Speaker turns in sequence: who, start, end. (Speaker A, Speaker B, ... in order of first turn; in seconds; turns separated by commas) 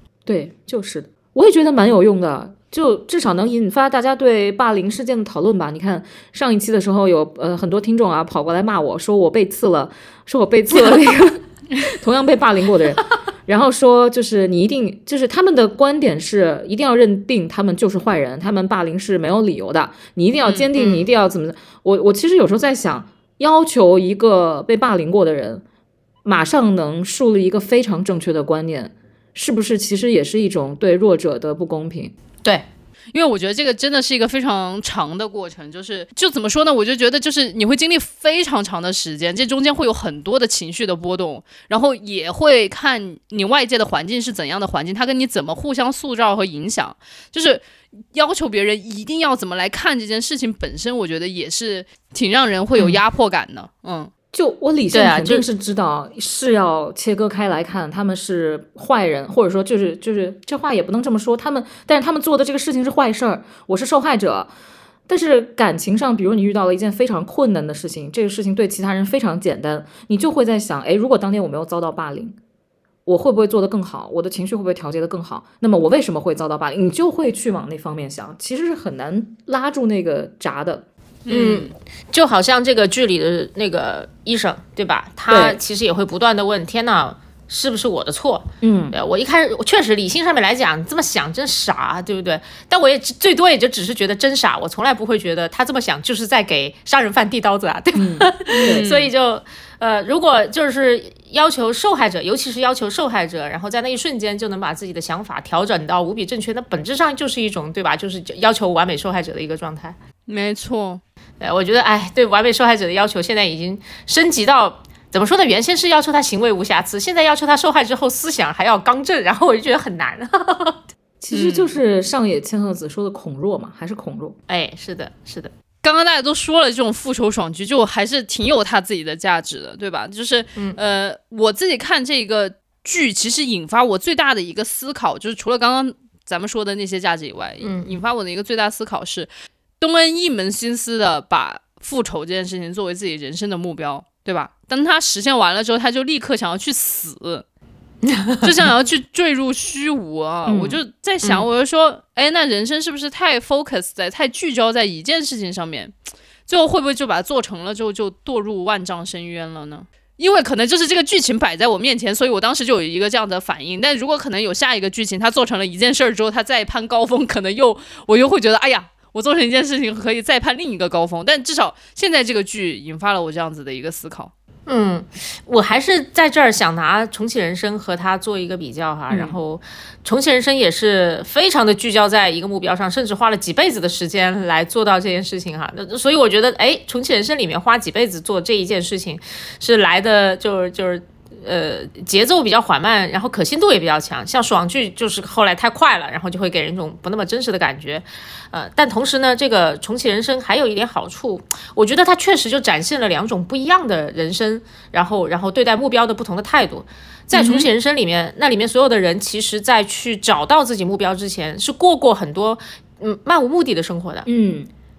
Speaker A: 0.3-25.6, Speaker B: 20.7-21.1, Speaker A: 26.2-32.1, Speaker C: 33.1-54.1, Speaker A: 54.3-64.5, Speaker B: 54.9-55.5, Speaker A: 65.1-72.4, Speaker A: 73.0-80.9, Speaker C: 81.3-81.7, Speaker B: 81.3-110.0, Speaker A: 85.3-85.6, Speaker A: 88.6-89.0, Speaker A: 98.0-98.9, Speaker C: 98.5-99.1, Speaker C: 110.3-111.0, Speaker B: 111.4-120.8, Speaker A: 121.2-124.4, Speaker C: 121.3-121.8, Speaker B: 124.5-125.5, Speaker C: 125.8-139.3, Speaker B: 137.6-137.9, Speaker C: 139.8-147.4, Speaker B: 148.0-148.5, Speaker C: 148.4-155.9, Speaker A: 150.4-150.8, Speaker C: 156.4-174.3, Speaker B: 174.7-214.3, Speaker A: 179.1-179.4, Speaker A: 207.3-207.7, Speaker A: 214.3-214.7